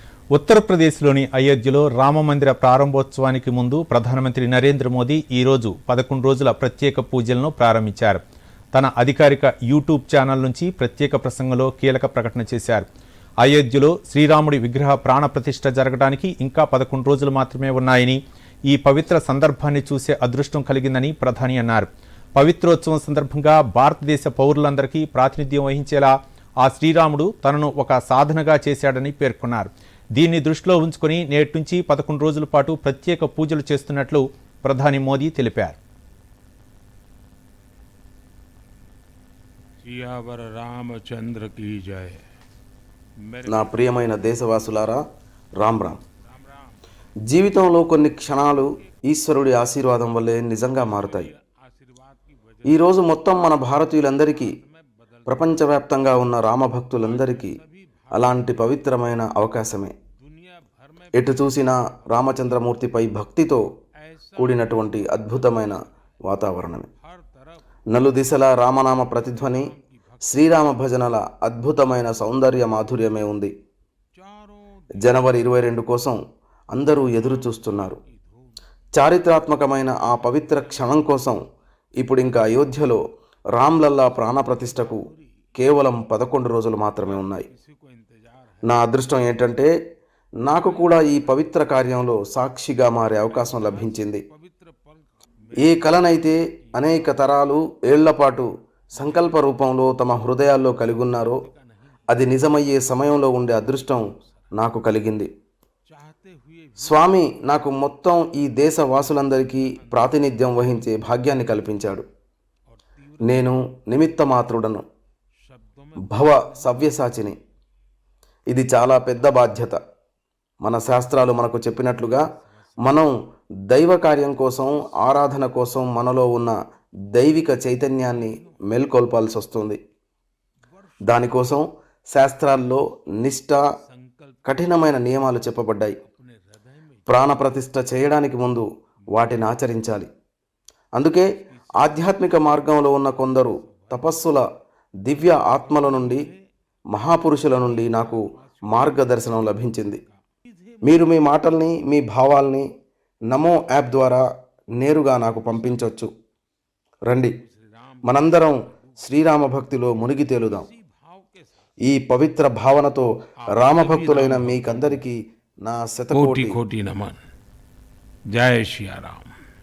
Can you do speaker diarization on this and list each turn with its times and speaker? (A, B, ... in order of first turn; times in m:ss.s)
0:00.3-0:08.2 A
0:08.7-0:12.8 A
0:13.4-0:35.8 A
0:39.8-0:42.2 B
0:43.2-0:44.0 B
0:43.4-0:45.0 C
0:45.6-0:46.0 C
0:46.2-0:46.8 B
0:47.3-0:51.3 C
0:48.5-0:49.0 B
0:50.7-0:52.9 B
0:52.6-0:54.5 C
0:54.2-0:55.6 B
0:55.3-0:57.6 C
0:56.9-0:58.6 B
0:58.1-0:59.9 C
1:00.2-1:01.5 B
1:01.1-1:03.6 C
1:04.1-1:05.9 B
1:04.4-1:06.9 C
1:07.0-1:07.6 B
1:07.9-1:09.7 C
1:09.1-1:10.6 B
1:10.3-1:13.5 C
1:14.2-1:15.2 B
1:15.0-1:16.2 C
1:16.7-1:18.0 C
1:17.2-1:18.6 B
1:19.0-1:21.4 C
1:20.2-1:21.1 B
1:22.0-1:23.0 C
1:23.5-1:25.0 C
1:24.6-1:25.3 B
1:25.6-1:27.5 C
1:27.0-1:28.8 B
1:28.6-1:29.7 C
1:30.4-1:34.2 C
1:30.6-1:31.5 B
1:33.3-1:37.2 B
1:35.6-1:41.4 C
1:39.0-1:39.5 B
1:41.2-1:42.0 B
1:42.1-1:44.0 C
1:44.6-1:45.3 C
1:45.9-1:47.4 B
1:46.8-1:52.0 C
1:49.1-1:50.4 B
1:53.0-1:53.5 B
1:53.2-1:54.8 C
1:55.4-1:57.2 B
1:56.1-1:57.4 C
1:58.5-1:59.8 C
2:00.6-2:02.2 C
2:02.4-2:03.0 B
2:02.8-2:03.1 C
2:03.7-2:06.5 C
2:07.1-2:09.8 C
2:08.0-2:08.6 B
2:10.8-2:11.6 B
2:11.0-2:13.6 C
2:13.8-2:14.9 B
2:14.4-2:16.0 C
2:16.0-2:17.2 B
2:17.1-2:20.1 C
2:21.0-2:24.4 C
2:21.4-2:22.5 B
2:23.4-2:24.1 B
2:25.0-2:26.3 C
2:25.6-2:26.4 B
2:26.9-2:30.0 C
2:27.4-2:30.2 B
2:30.8-2:32.7 C
2:33.3-2:34.2 C
2:34.8-2:36.1 C
2:35.5-2:35.9 B
2:37.1-2:37.4 C
2:37.4-2:39.1 B
2:38.0-2:40.7 C
2:40.5-2:41.7 B
2:41.8-2:46.6 C
2:43.4-2:45.0 B
2:46.1-2:47.2 B
2:48.3-2:49.3 B